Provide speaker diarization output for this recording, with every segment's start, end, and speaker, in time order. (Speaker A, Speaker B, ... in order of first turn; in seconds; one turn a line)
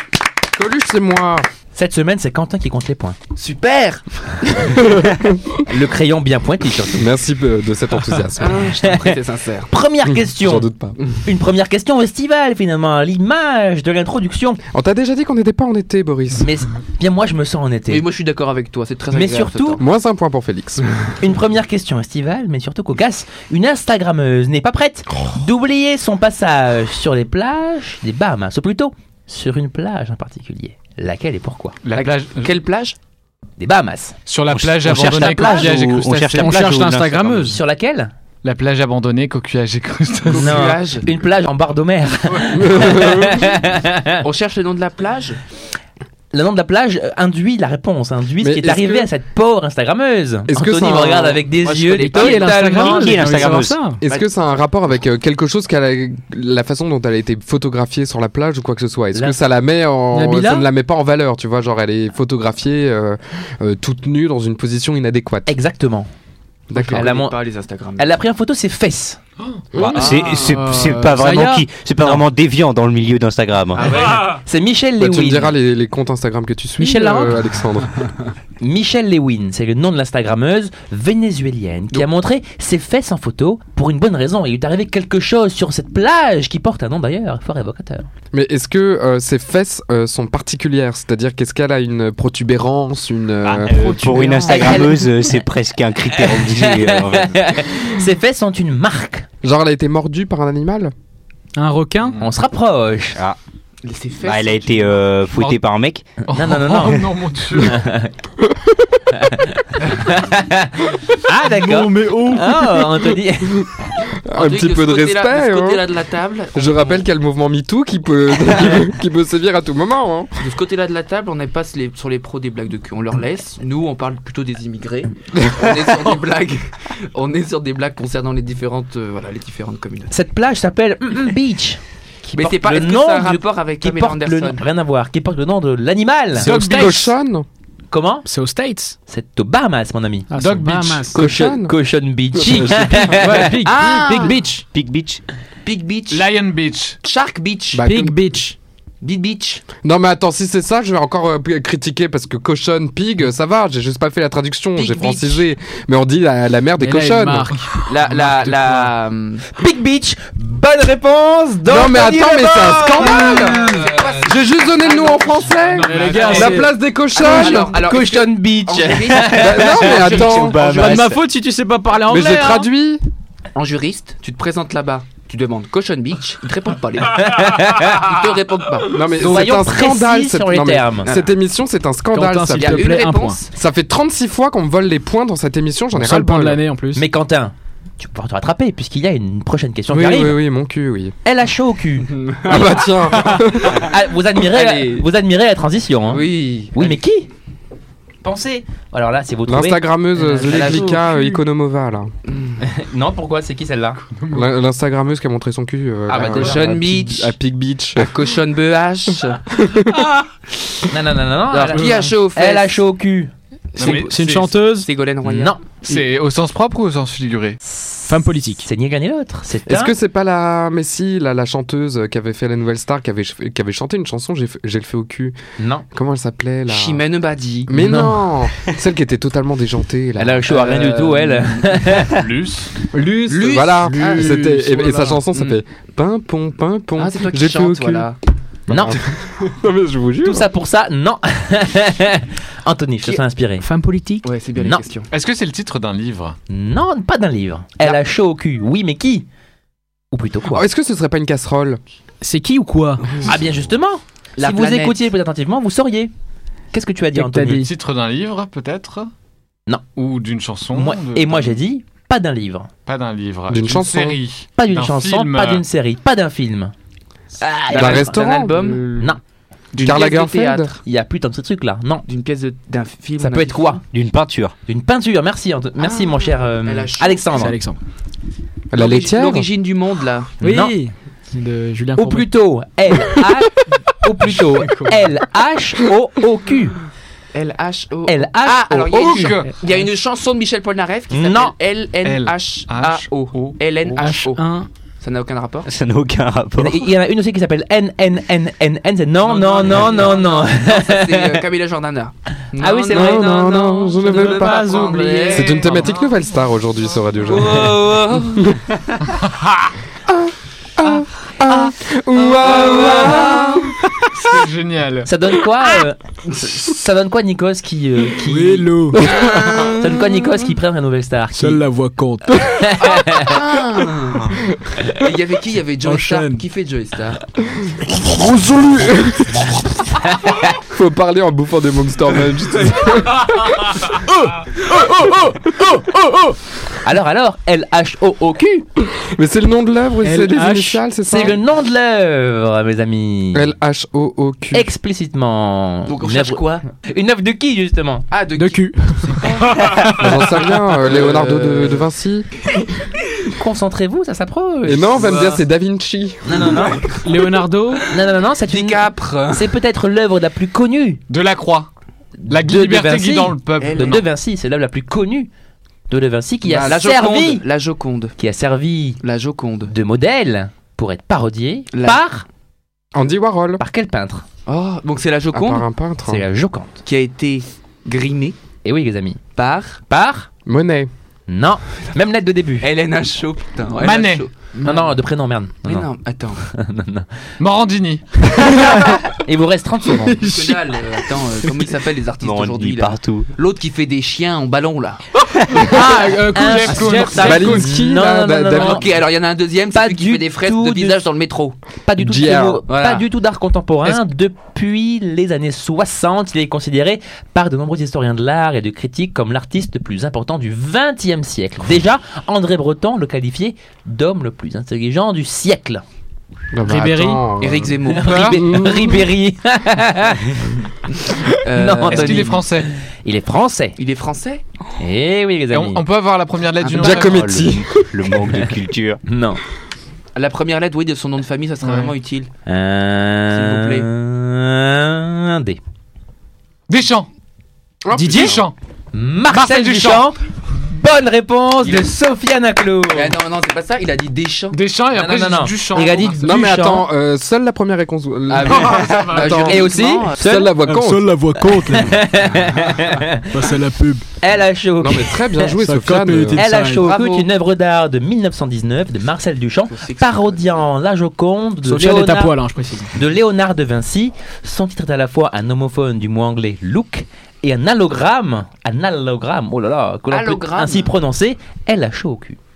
Speaker A: 0.6-1.5
Speaker B: 1.8-3.2
Speaker C: 3.4-4.8
Speaker A: 4.7-5.6
Speaker B: 5.7-7.1
Speaker A: 6.9-8.7
Speaker C: 8.4-9.7
Speaker B: 8.8-10.7
Speaker A: 10.1-11.0
Speaker B: 11.2-14.6
Speaker A: 14.7-16.5
Speaker B: 16.4-18.1
Speaker C: 17.9-19.8
Speaker B: 19.1-19.8
Speaker A: 19.8-20.8
Speaker B: 21.2-31.8
Speaker D: 31.9-32.5
Speaker C: 32.0-33.0
Speaker B: 33.6-34.1
Speaker D: 34.3-36.6
Speaker E: 34.5-37.5
Speaker B: 34.9-36.1
Speaker F: 36.3-37.6
Speaker B: 37.4-38.1
Speaker D: 38.4-40.7
Speaker C: 40.3-41.1
Speaker B: 40.3-44.2
Speaker A: 42.5-43.6
Speaker C: 44.2-45.4
Speaker B: 46.3-53.5
Speaker A: 48.4-49.1
Speaker A: 50.5-51.4
Speaker C: 51.6-52.9
Speaker F: 52.0-54.0
Speaker E: 52.9-53.8
Speaker A: 54.0-65.5
Speaker F: 60.1-60.6
Speaker B: 65.5-66.1
Speaker A: 66.7-67.1
Speaker C: 66.7-68.1
Speaker B: 66.9-67.4
Speaker B: 68.0-69.2
Speaker D: 69.4-69.7
Speaker A: 69.7-70.0
Speaker E: 69.8-74.1
Speaker C: 69.9-70.5
Speaker F: 70.2-71.7
Speaker B: 72.0-72.2
Speaker C: 73.8-74.4
Speaker D: 73.8-74.4
Speaker B: 74.2-75.6
Speaker A: 75.0-77.9
Speaker B: 76.8-77.4
Speaker F: 76.9-77.1
Speaker B: 78.6-88.1
Speaker A: 88.3-93.8
Speaker E: 93.5-97.4
Speaker F: 93.6-95.0
Speaker B: 94.4-95.4
Speaker B: 96.1-99.3
Speaker A: 99.4-100.9
Speaker F: 101.5-102.2
Speaker B: 102.2-103.2
Speaker C: 103.8-105.2
Speaker E: 104.2-106.0
Speaker D: 106.2-107.8
Speaker B: 106.3-108.1
Speaker A: 108.4-108.7
Speaker B: 109.2-113.7
Speaker F: 111.4-113.2
Speaker A: 114.2-115.9
Speaker C: 114.3-117.1
Speaker A: 116.6-120.3
Speaker C: 120.4-130.1
Speaker B: 130.1-136.5
Speaker C: 132.3-134.6
Speaker F: 136.3-137.1
Speaker A: 136.4-137.5
Speaker D: 136.4-137.1
Speaker B: 137.9-138.3
Speaker F: 138.2-138.9
Speaker B: 139.1-140.3
Speaker F: 140.3-141.3
Speaker D: 140.4-141.0
Speaker B: 141.1-143.6
Speaker A: 141.1-141.8
Speaker A: 142.3-143.4
Speaker F: 142.4-144.7
Speaker C: 143.6-144.4
Speaker E: 144.7-145.2
Speaker C: 145.7-146.2
Speaker D: 146.1-147.0
Speaker C: 147.1-147.8
Speaker A: 147.7-148.2
Speaker F: 147.8-148.6
Speaker C: 149.0-149.7
Speaker A: 149.8-157.5
Speaker C: 154.8-155.4
Speaker F: 156.8-157.7
Speaker D: 157.5-158.9
Speaker C: 157.9-159.5
Speaker B: 159.5-163.8
Speaker A: 161.7-167.7
Speaker C: 162.7-166.6
Speaker D: 165.6-166.7
Speaker F: 165.8-166.8
Speaker C: 167.1-170.8
Speaker B: 167.2-170.3
Speaker A: 169.2-170.6
Speaker E: 170.0-171.2
Speaker F: 170.6-172.7
Speaker A: 172.1-173.0
Speaker C: 173.6-179.1
Speaker B: 177.2-178.1
Speaker A: 178.9-182.9
Speaker B: 179.1-181.1
Speaker F: 182.1-183.4
Speaker C: 182.5-183.5
Speaker A: 183.5-186.6
Speaker F: 185.9-187.1
Speaker B: 186.9-190.4
Speaker A: 189.9-191.2
Speaker B: 191.2-197.3
Speaker C: 192.2-192.7
Speaker A: 192.4-193.9
Speaker C: 194.3-195.1
Speaker C: 196.1-197.0
Speaker B: 198.2-199.9
Speaker A: 199.5-202.1
Speaker F: 200.2-201.4
Speaker C: 200.4-201.0
Speaker C: 202.3-202.6
Speaker B: 202.6-204.0
Speaker D: 204.2-204.5
Speaker A: 204.3-208.2
Speaker C: 206.1-207.3
Speaker B: 206.3-206.7
Speaker C: 208.0-209.6
Speaker A: 209.5-210.1
Speaker B: 210.9-213.3
Speaker C: 211.5-212.8
Speaker C: 213.8-215.6
Speaker D: 213.8-214.2
Speaker F: 213.8-214.9
Speaker B: 215.2-215.6
Speaker D: 215.8-217.6
Speaker B: 217.7-219.9
Speaker F: 218.1-218.7
Speaker A: 219.7-225.3
Speaker B: 225.6-225.9
Speaker A: 225.9-227.0
Speaker C: 226.7-227.9
Speaker A: 227.7-230.7
Speaker B: 230.2-232.2
Speaker C: 230.5-231.8
Speaker D: 232.0-232.7
Speaker A: 232.9-238.1
Speaker C: 233.3-235.6
Speaker F: 234.0-234.5
Speaker C: 237.0-238.2
Speaker B: 238.7-239.0
Speaker A: 238.7-240.5
Speaker B: 240.2-243.7
Speaker F: 243.6-244.3
Speaker C: 244.2-245.1
Speaker B: 244.6-244.8
Speaker D: 245.1-246.4
Speaker B: 246.5-249.3
Speaker B: 250.1-250.7
Speaker A: 250.5-251.8
Speaker F: 252.2-253.2
Speaker B: 253.2-256.1
Speaker C: 254.4-255.0
Speaker B: 256.7-257.6
Speaker F: 257.1-257.7
Speaker D: 257.6-259.1
Speaker D: 260.0-261.5
Speaker B: 260.7-262.7
Speaker D: 262.9-265.6
Speaker A: 263.5-264.2
Speaker B: 264.6-266.7
Speaker B: 267.4-268.2
Speaker C: 267.7-269.2
Speaker A: 267.7-268.8
Speaker B: 268.8-269.2
Speaker C: 269.7-270.8
Speaker A: 269.8-270.8
Speaker B: 270.8-272.1
Speaker C: 272.1-273.8
Speaker B: 273.2-273.8
Speaker E: 273.9-274.5
Speaker B: 274.7-277.6
Speaker C: 275.8-277.4
Speaker F: 277.3-277.8
Speaker A: 278.7-279.5
Speaker C: 278.8-280.3
Speaker B: 280.4-280.8
Speaker F: 280.4-282.3
Speaker B: 282.0-286.8
Speaker C: 287.3-294.4
Speaker B: 288.1-289.4
Speaker D: 288.9-289.7
Speaker B: 291.1-291.5
Speaker D: 292.0-294.0
Speaker F: 293.9-294.7
Speaker C: 295.0-295.7
Speaker E: 295.7-296.9
Speaker B: 296.6-301.4
Speaker C: 299.3-305.9
Speaker D: 299.7-300.0
Speaker B: 302.6-303.5
Speaker A: 302.9-308.6
Speaker F: 304.1-305.6
Speaker D: 305.3-306.2
Speaker C: 307.2-308.6
Speaker D: 309.1-309.7
Speaker A: 310.1-313.9
Speaker C: 311.6-313.8
Speaker D: 314.1-315.1
Speaker B: 315.1-321.6
Speaker F: 318.2-319.1
Speaker A: 319.0-319.7
Speaker C: 319.1-320.0
Speaker F: 321.4-322.4
Speaker B: 322.4-323.4
Speaker C: 322.8-327.3
Speaker F: 325.8-326.4
Speaker F: 328.1-329.0
Speaker A: 328.2-329.4
Speaker A: 330.6-333.9
Speaker F: 334.0-336.4
Speaker B: 336.8-338.6
Speaker A: 338.9-341.4
Speaker F: 340.0-340.8
Speaker B: 341.1-343.5
Speaker A: 343.3-344.7
Speaker B: 344.5-348.1
Speaker C: 345.9-346.6
Speaker C: 348.1-351.9
Speaker F: 348.4-350.0
Speaker A: 349.9-352.3
Speaker B: 353.3-355.4
Speaker A: 354.7-356.8
Speaker C: 355.0-355.4
Speaker B: 356.2-356.9
Speaker F: 357.0-357.9
Speaker B: 357.9-361.0
Speaker C: 358.5-359.6
Speaker D: 361.1-361.7
Speaker B: 362.2-365.3
Speaker D: 362.3-364.1
Speaker C: 363.6-364.0
Speaker B: 365.9-367.4
Speaker A: 366.4-366.8
Speaker C: 366.6-368.1
Speaker B: 368.2-369.0
Speaker C: 369.0-369.7
Speaker B: 369.7-372.2
Speaker C: 371.7-372.0
Speaker A: 372.9-373.6
Speaker B: 373.6-374.2
Speaker C: 374.5-375.7
Speaker A: 375.3-376.2
Speaker B: 376.1-376.8
Speaker C: 376.8-378.4
Speaker B: 378.6-379.2
Speaker C: 379.4-379.8
Speaker B: 379.9-380.3
Speaker A: 380.5-380.9
Speaker B: 381.3-382.7
Speaker C: 382.6-385.0
Speaker D: 383.8-384.3
Speaker B: 384.6-387.1
Speaker C: 385.6-386.4
Speaker D: 387.4-388.2
Speaker F: 388.4-389.0
Speaker B: 388.4-390.3
Speaker F: 390.0-390.7
Speaker C: 390.2-395.0
Speaker E: 392.2-393.3
Speaker F: 395.5-397.7
Speaker D: 395.7-397.4
Speaker B: 396.3-398.9
Speaker A: 397.2-398.9
Speaker C: 398.5-401.6
Speaker B: 399.7-401.0
Speaker B: 401.9-415.8
Speaker A: 402.0-402.6
Speaker C: 402.7-403.1
Speaker A: 416.5-419.1
Speaker F: 416.6-417.3
Speaker C: 417.4-418.5
Speaker B: 417.9-420.6
Speaker B: 421.3-422.5
Speaker C: 421.4-422.4
Speaker D: 421.8-422.7
Speaker B: 423.0-423.8
Speaker C: 423.8-424.4
Speaker B: 424.8-425.8
Speaker D: 425.5-427.3
Speaker C: 426.6-427.1
Speaker A: 426.7-427.9
Speaker E: 427.1-429.0
Speaker B: 429.1-429.4
Speaker C: 430.1-432.3
Speaker D: 431.6-431.9
Speaker B: 432.5-435.6
Speaker C: 433.3-433.9
Speaker D: 436.7-437.1
Speaker A: 437.9-438.4
Speaker F: 438.0-438.4
Speaker D: 438.0-438.6
Speaker B: 438.9-443.2
Speaker D: 439.3-440.1
Speaker C: 442.9-444.6
Speaker D: 444.5-446.3
Speaker B: 444.9-446.9
Speaker A: 446.2-451.1
Speaker C: 448.3-450.3
Speaker D: 448.5-449.4
Speaker B: 449.3-450.5
Speaker F: 450.6-452.2
Speaker B: 451.5-453.3
Speaker F: 453.3-454.1
Speaker B: 454.2-455.6
Speaker A: 454.8-456.4
Speaker F: 455.5-456.9
Speaker B: 456.2-462.4
Speaker C: 456.8-457.3
Speaker C: 459.7-460.4
Speaker F: 461.6-462.9
Speaker B: 462.9-472.4
Speaker C: 470.1-471.0